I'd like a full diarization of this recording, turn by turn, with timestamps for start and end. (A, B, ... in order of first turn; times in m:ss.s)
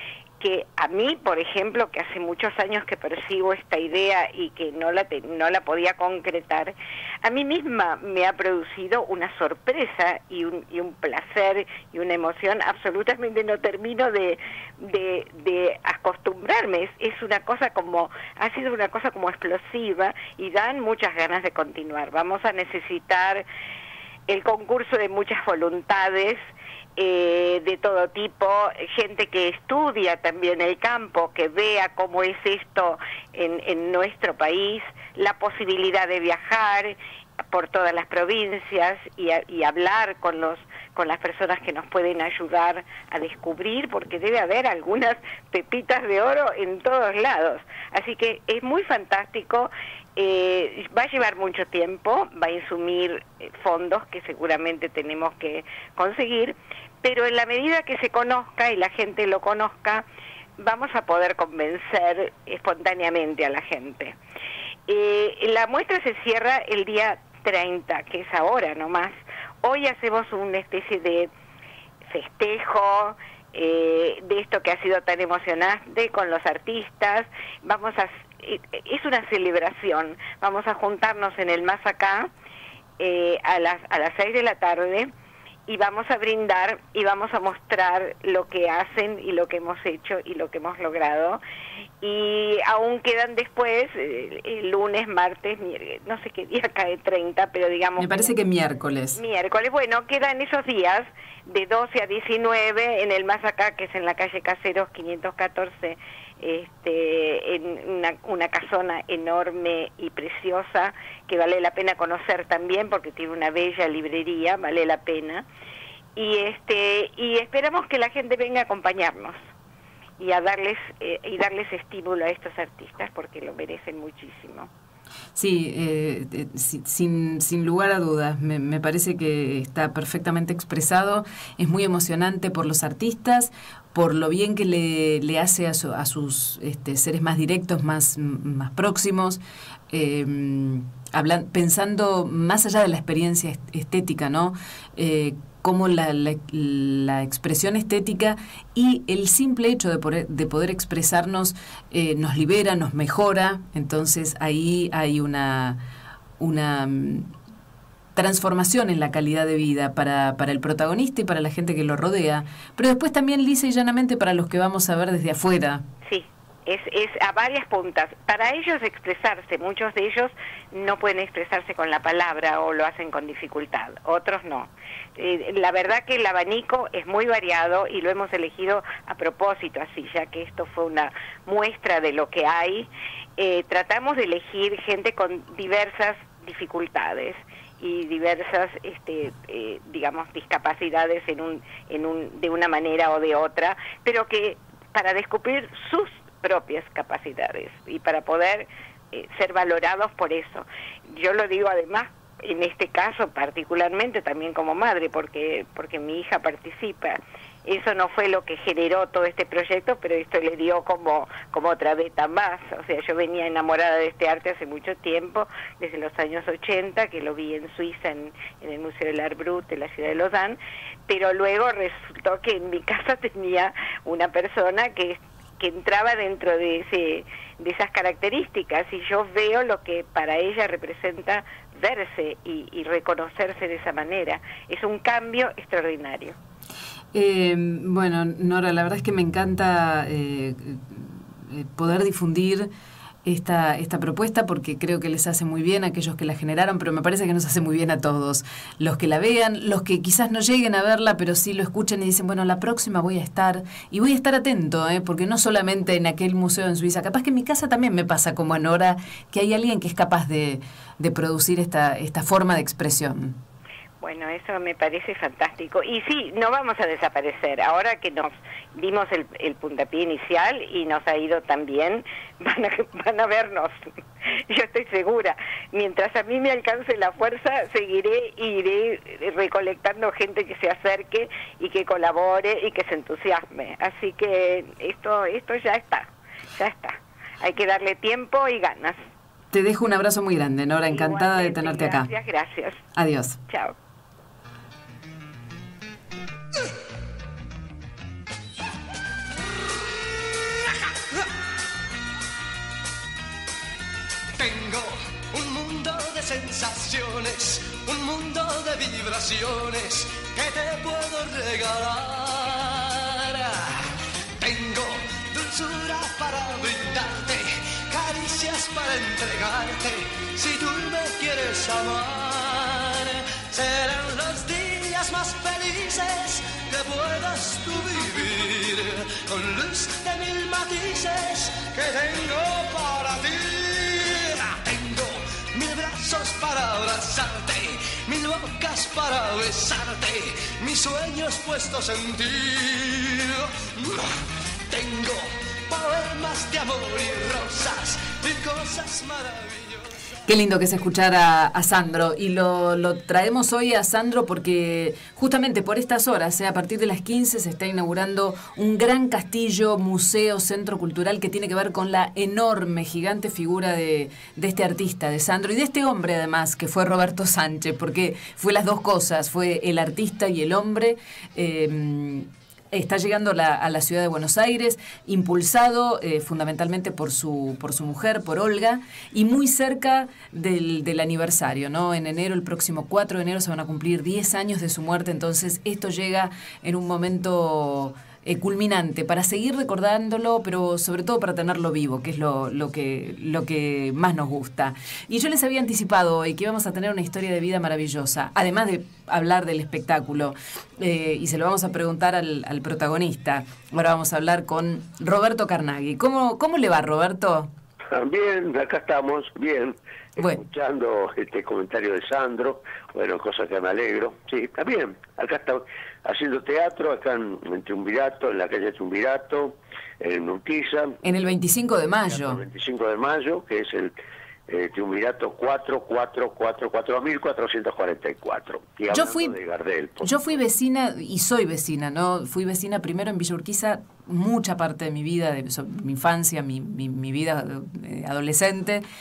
0:00.4-0:23.4 A
0:24.3-0:26.4 A
0:27.0-0:36.9 A
0:37.5-1:00.0 A
1:00.6-1:04.2 A
1:04.9-1:11.3 A
1:12.1-1:22.3 A
1:23.0-1:25.1 A
1:25.7-1:31.4 A
1:32.0-1:38.3 A
1:38.0-1:39.2 B
1:39.2-1:55.4 A
1:56.2-1:59.4 A
2:00.2-2:04.7 A
2:05.3-2:35.8 B
2:36.4-2:37.3 B
2:38.2-2:45.8 B
2:46.0-3:56.4 A
3:57.1-4:02.7 B
4:03.2-4:23.4 B
4:24.0-4:33.8 A
4:34.5-4:49.0 A
4:49.5-4:52.1 B
4:50.9-4:52.8 A
4:53.0-4:53.4 B
4:53.5-4:53.7 A
5:04.4-5:05.7 C
5:06.7-5:12.4 C
5:14.4-5:22.8 C
5:23.3-5:44.0 C
5:44.7-5:49.8 C
5:50.2-6:47.5 B
6:47.9-7:01.0 D
7:01.0-7:02.4 B
7:02.1-7:03.9 D
7:04.5-7:10.2 D
7:08.9-7:09.4 B
7:10.0-7:18.8 B